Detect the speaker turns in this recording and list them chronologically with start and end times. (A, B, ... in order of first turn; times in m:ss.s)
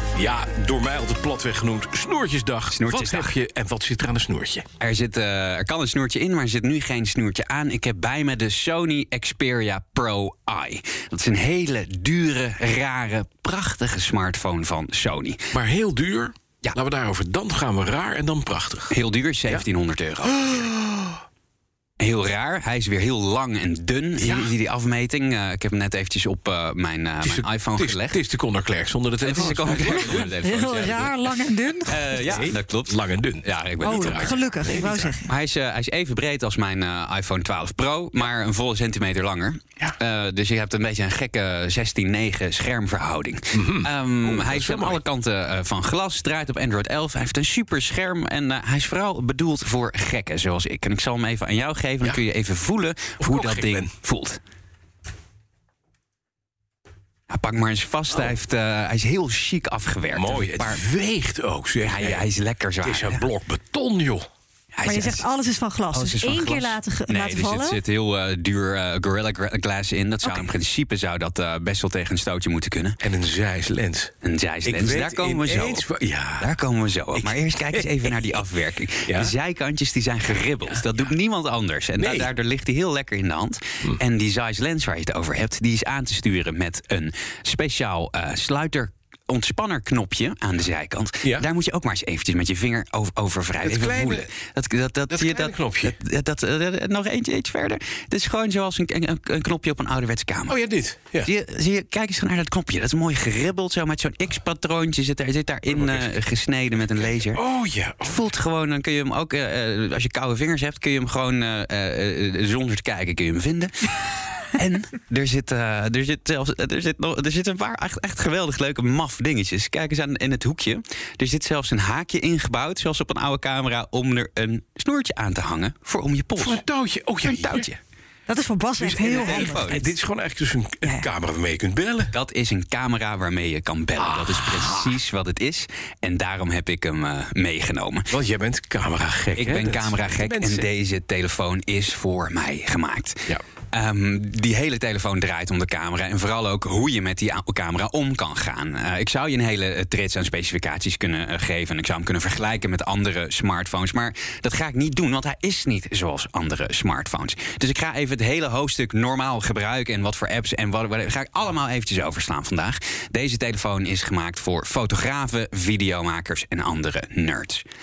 0:00.2-0:04.6 A
0:02.7-0:03.4 B
0:04.8-0:15.4 B
0:15.5-0:18.9 A
0:18.9-0:20.7 B
0:20.5-0:21.2 A
0:22.0-0:28.2 B
0:24.2-0:24.5 A
0:27.2-0:30.4 A
0:29.2-0:31.2 B
0:30.4-0:32.3 C
0:31.8-0:34.4 B
0:32.2-0:35.2 A
0:33.8-0:35.3 C
0:35.2-0:54.4 B
0:43.5-0:45.0 A
0:53.2-0:53.9 A
0:57.3-1:00.8 B
1:00.1-1:02.3 A
1:01.8-1:03.3 B
1:02.8-1:04.3 A
1:04.7-1:05.3 B
1:04.8-1:07.8 C
1:05.9-1:13.0 B
1:13.0-1:14.1 A
1:14.2-1:15.8 B
1:14.6-1:16.6 A
1:16.4-1:40.6 B
1:17.2-1:18.4 A
1:19.1-1:19.3 A
1:22.0-1:22.3 A
1:33.6-1:34.3 A
1:35.1-1:36.0 A
1:40.5-1:41.3 A
1:41.2-1:47.4 B
1:45.7-1:46.1 A
1:47.3-1:48.2 A
1:48.0-2:06.6 B
2:06.4-2:07.8 A
2:07.2-2:07.7 B
2:08.3-2:09.9 C
2:08.8-2:12.1 A
2:09.1-2:09.9 B
2:12.1-2:18.1 B
2:14.0-2:15.0 A
2:18.1-2:20.7 A
2:19.4-2:47.6 B